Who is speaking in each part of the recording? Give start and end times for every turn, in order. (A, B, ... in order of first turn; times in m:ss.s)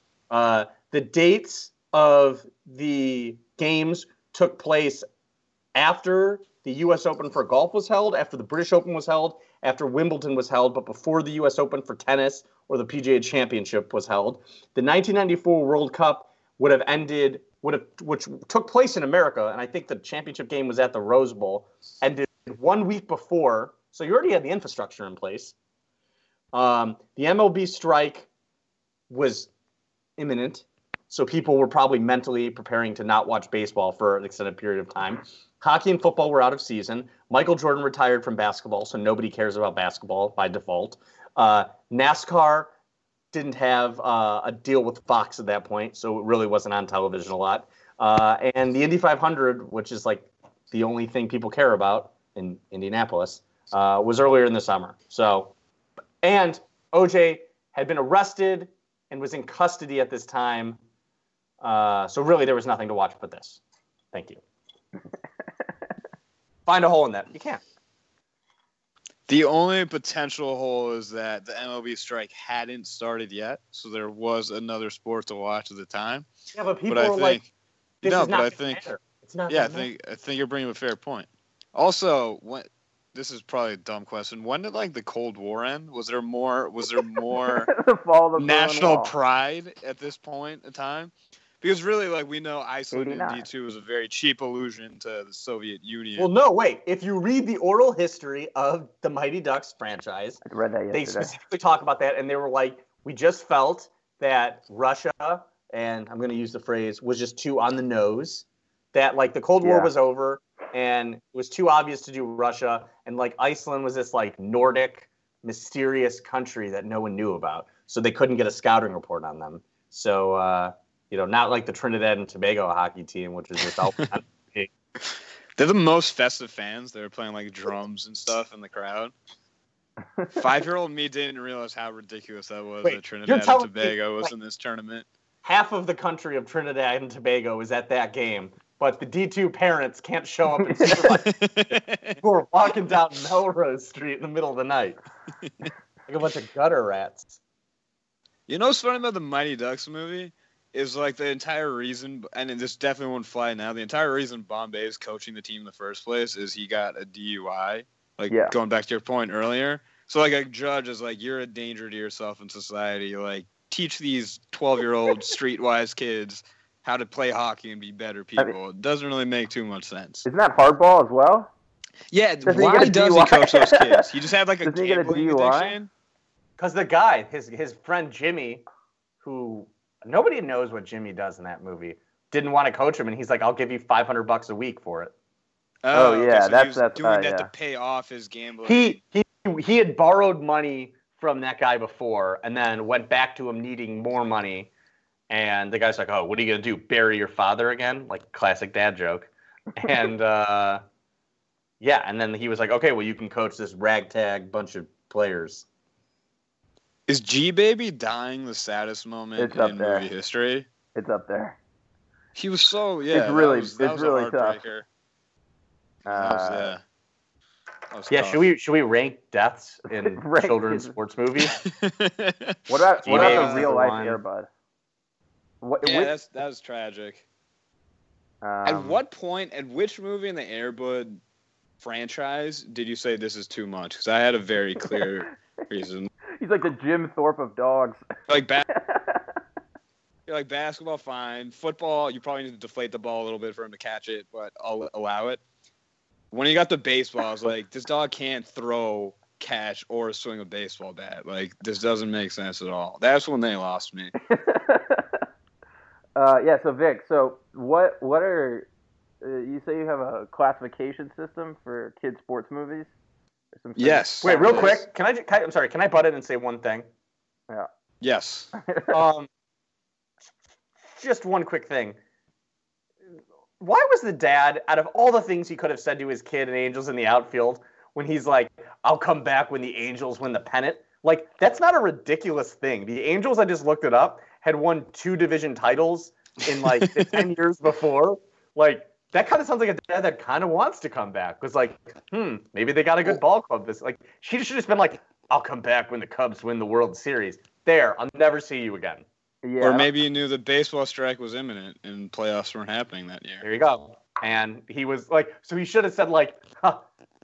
0:00.3-0:05.1 A
0:05.8-0:25.6 A
0:26.5-0:28.3 A
0:29.1-0:29.5 A
0:30.2-0:42.7 A
0:43.3-0:55.6 A
0:56.2-1:00.8 A
1:01.6-1:03.6 A
1:04.1-1:04.4 A
1:06.6-1:07.6 A
1:09.3-1:16.3 B
1:16.5-1:17.5 A
1:16.9-1:17.4 B
1:18.0-1:18.8 B
1:18.0-1:19.9 A
1:19.5-1:27.7 B
1:27.4-1:29.1 C
1:28.4-1:36.3 B
1:32.9-1:33.5 C
1:36.2-2:04.7 A
1:40.4-1:41.4 C
1:49.6-1:49.9 C
2:05.6-2:09.1 B
2:10.3-2:15.1 B
2:12.8-2:14.3 A
2:15.4-2:25.0 A
2:20.6-2:21.1 C
2:21.1-2:22.2 B
2:26.1-2:27.4 A
2:28.5-2:50.3 B
2:50.2-2:51.5 C
2:52.1-2:55.9 B
2:52.5-2:54.1 C
2:54.6-2:55.8 C
2:56.6-2:58.6 A
2:59.2-3:05.1 A
3:05.8-3:09.0 B
3:05.9-3:07.5 C
3:08.6-3:14.7 A
3:15.3-3:20.8 A
3:21.8-3:25.6 A
3:27.1-3:30.7 B
3:29.4-3:30.1 C
3:31.0-3:31.6 C
3:32.4-3:34.9 B
3:33.1-3:34.6 C
3:36.1-3:36.8 C
3:36.1-3:36.8 B
3:37.9-3:38.5 B
3:38.1-3:41.6 A
3:39.9-3:41.0 C
3:41.6-3:43.7 B
3:42.7-3:44.5 C
3:43.0-3:44.2 A
3:45.6-3:46.1 C
3:45.8-3:47.2 B
3:48.4-3:49.0 C
3:48.6-3:51.2 B
3:51.8-3:56.1 B
3:56.4-3:58.0 C
3:58.3-3:58.7 B
3:58.7-3:59.2 C
4:00.3-4:05.4 B
4:06.3-4:14.1 B
4:14.3-4:15.2 C
4:16.2-4:18.7 C
4:19.2-4:22.9 C
4:23.6-4:24.8 C
4:23.8-4:24.8 B
4:24.2-4:26.9 A
4:28.0-4:28.5 B
4:28.6-4:28.9 C
4:28.9-4:29.3 A
4:31.0-4:32.0 A
4:33.6-4:59.0 A
4:46.8-4:47.2 B
4:59.4-4:59.9 C
4:59.6-5:03.5 B
5:03.4-5:06.9 A